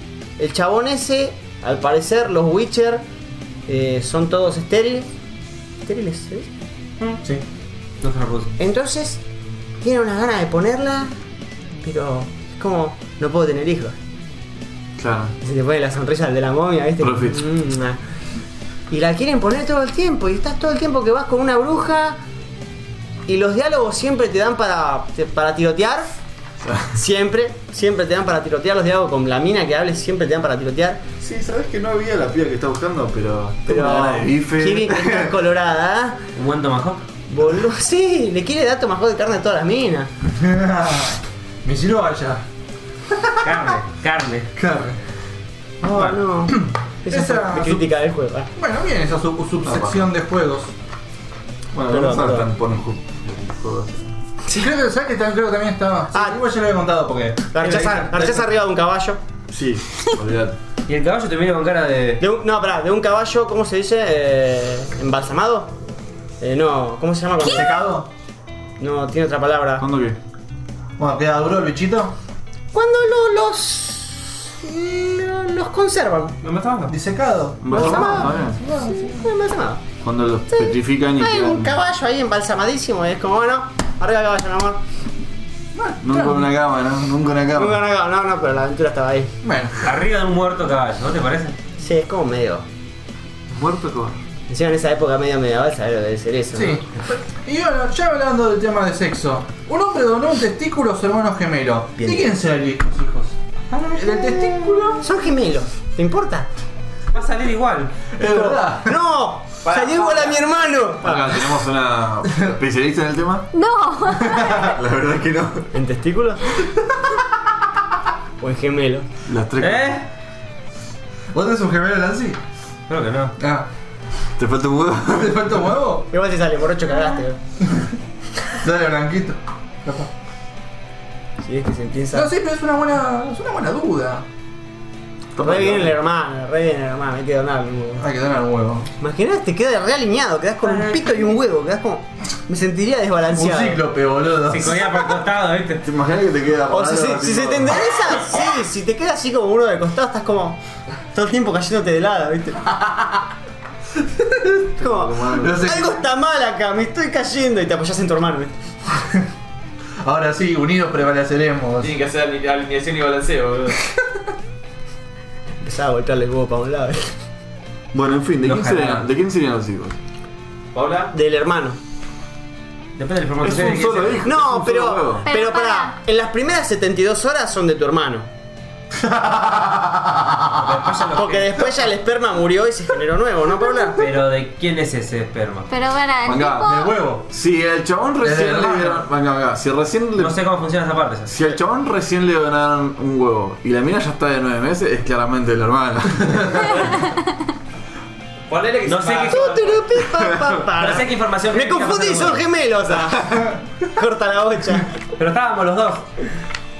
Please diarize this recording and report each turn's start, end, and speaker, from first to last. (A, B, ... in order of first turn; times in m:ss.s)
0:00.4-0:03.0 A
0:03.7-0:05.1 A
0:05.8-0:06.5 A
0:08.0-0:08.5 B
0:08.6-0:09.2 A
0:09.8-0:11.1 A
0:11.8-0:14.0 A
0:15.0-0:15.3 C
0:15.4-0:18.0 A
0:17.0-0:17.4 C
0:18.9-0:22.2 A
0:23.2-0:26.1 A
0:26.6-0:27.0 C
0:26.9-0:31.0 A
0:31.2-0:35.3 C
0:33.6-0:36.2 A
0:36.3-0:37.0 B
0:37.3-0:40.1 A
0:40.3-0:42.4 D
0:43.1-0:43.4 D
0:43.4-0:44.5 B
0:44.6-0:45.0 D
0:45.8-0:48.5 A
0:46.5-0:47.9 D
0:48.6-0:50.7 D
0:49.6-0:50.1 C
0:51.7-0:54.1 C
0:51.9-0:52.5 A
0:54.6-0:58.4 D
0:56.1-0:56.4 A
0:57.5-0:59.2 A
0:57.6-0:58.0 B
0:59.5-1:00.6 C
1:00.9-1:02.2 B
1:02.2-1:05.7 A
1:06.4-1:07.9 A
1:07.4-1:08.1 D
1:08.8-1:09.8 A
1:09.8-1:10.2 C
1:11.0-1:12.1 D
1:12.7-1:16.4 A
1:16.4-1:16.9 B
1:16.9-1:19.3 D
1:17.6-1:18.6 C
1:17.7-1:19.8 A
1:20.0-1:21.7 C
1:20.5-1:24.8 A
1:25.7-1:26.5 D
1:26.0-1:27.8 C
1:27.5-1:29.3 A
1:29.4-1:29.8 D
1:29.8-1:31.6 B
1:31.8-1:32.6 A
1:33.5-1:34.2 C
1:34.5-1:36.8 A
1:36.5-1:45.1 D
1:42.0-1:42.3 A
1:44.0-1:46.5 A
1:47.1-1:47.9 B
1:48.1-1:49.0 D
1:48.2-1:51.5 A
1:49.7-1:50.3 E
1:51.0-1:53.5 C
1:53.5-1:54.6 F
1:54.2-1:55.7 C
1:54.3-1:54.7 D
1:55.7-1:56.5 A
1:58.4-1:59.1 A
1:59.2-2:00.0 C
1:59.6-2:00.0 B
2:01.3-2:02.4 D
2:02.9-2:03.4 B
2:03.4-2:03.7 D
2:04.4-2:05.6 C
2:05.1-2:06.1 D
2:06.1-2:07.4 A
2:08.5-2:10.1 D
2:11.4-2:12.3 A
2:12.1-2:14.2 D
2:15.3-2:16.0 C
2:15.4-2:18.0 A
2:18.0-2:18.9 D
2:19.0-2:23.8 A
2:20.6-2:21.3 B
2:23.3-2:25.0 D
2:24.5-2:25.8 B
2:25.8-2:27.8 C
2:26.7-2:30.6 A
2:31.1-2:32.7 A
2:34.8-2:38.6 A
2:34.8-2:35.7 C
2:35.4-2:36.0 D
2:40.0-2:42.0 D
2:41.8-2:43.8 E
2:45.6-2:47.1 A
2:47.9-2:50.0 C
2:48.5-2:49.0 D
2:50.7-2:51.1 E
2:51.1-2:51.8 A
2:53.0-2:54.3 B
2:53.4-2:55.3 C
2:54.2-2:58.3 A
2:55.2-2:55.9 F
2:58.9-3:00.6 D
3:00.6-3:01.8 B
3:01.1-3:04.0 A
3:04.0-3:05.7 B
3:05.7-3:07.0 F
3:06.2-3:10.4 C
3:06.6-3:07.3 D
3:08.2-3:09.0 D
3:10.2-3:11.4 B
3:11.3-3:16.9 C
3:18.5-3:19.8 E
3:18.8-3:22.4 B
3:19.3-3:25.0 A
3:25.2-3:26.1 B